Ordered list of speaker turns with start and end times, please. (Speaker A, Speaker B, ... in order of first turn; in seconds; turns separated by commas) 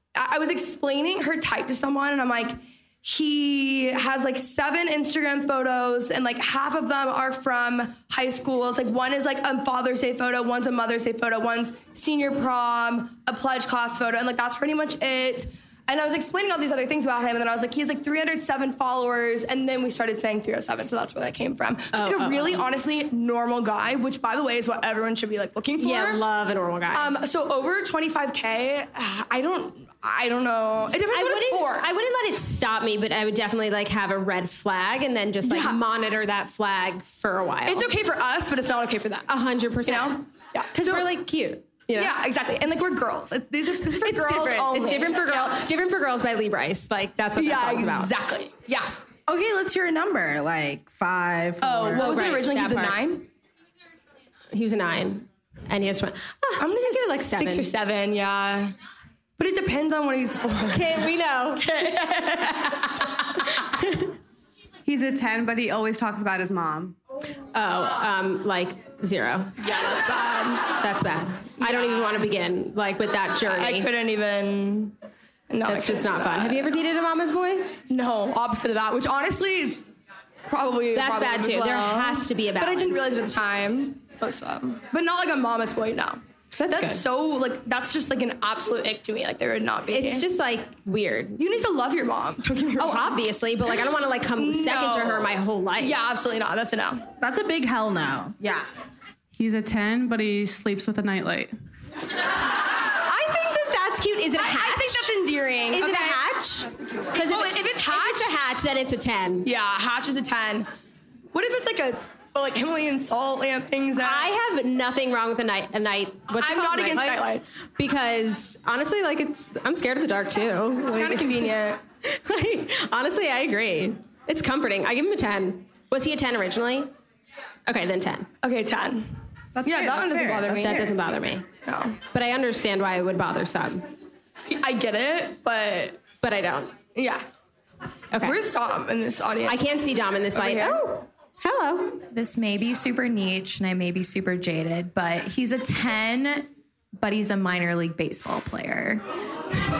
Speaker A: 0.1-26.2, Speaker B: 21.9-22.6, Speaker B: 25.8-27.1, Speaker A: 26.9-31.9, Speaker B: 31.1-37.9, Speaker A: 35.4-35.8, Speaker A: 37.6-39.3, Speaker B: 39.3-42.1, Speaker A: 39.8-41.0, Speaker A: 41.9-45.6, Speaker B: 43.9-48.1, Speaker A: 47.3-48.9, Speaker C: 49.3-52.0, Speaker A: 51.6-53.3, Speaker B: 52.0-53.0, Speaker B: 54.5-57.7, Speaker A: 56.6-58.7, Speaker A: 59.4-63.2, Speaker B: 60.7-61.6, Speaker B: 63.5-64.1, Speaker D: 64.8-66.9, Speaker B: 67.5-69.6, Speaker A: 69.6-70.8, Speaker B: 70.8-73.9, Speaker A: 71.6-72.3, Speaker A: 73.4-74.9, Speaker A: 75.5-76.7, Speaker B: 75.7-77.7, Speaker A: 77.9-79.8, Speaker A: 80.5-90.3, Speaker B: 80.9-83.0, Speaker B: 86.6-87.0, Speaker B: 89.9-91.4, Speaker A: 91.4-93.3, Speaker B: 92.8-96.0, Speaker A: 94.3-97.1, Speaker C: 97.2-98.7, Speaker D: 99.3-101.5, Speaker B: 103.0-105.1, Speaker A: 104.4-106.2, Speaker B: 105.7-109.5, Speaker A: 107.1-108.3, Speaker A: 109.4-110.7, Speaker A: 111.3-114.3, Speaker B: 114.0-121.5, Speaker A: 116.3-117.5, Speaker A: 120.9-121.8, Speaker B: 122.0-126.9, Speaker B: 127.7-128.3, Speaker A: 128.4-130.9, Speaker C: 129.5-130.9, Speaker B: 130.6-131.5, Speaker A: 131.6-132.0, Speaker B: 132.1-133.9, Speaker A: 134.5-136.0, Speaker B: 136.2-136.7, Speaker A: 136.9-137.2, Speaker B: 138.1-138.4, Speaker A: 138.2-139.6, Speaker B: 139.4-142.0, Speaker A: 140.3-140.8, Speaker E: 142.1-149.0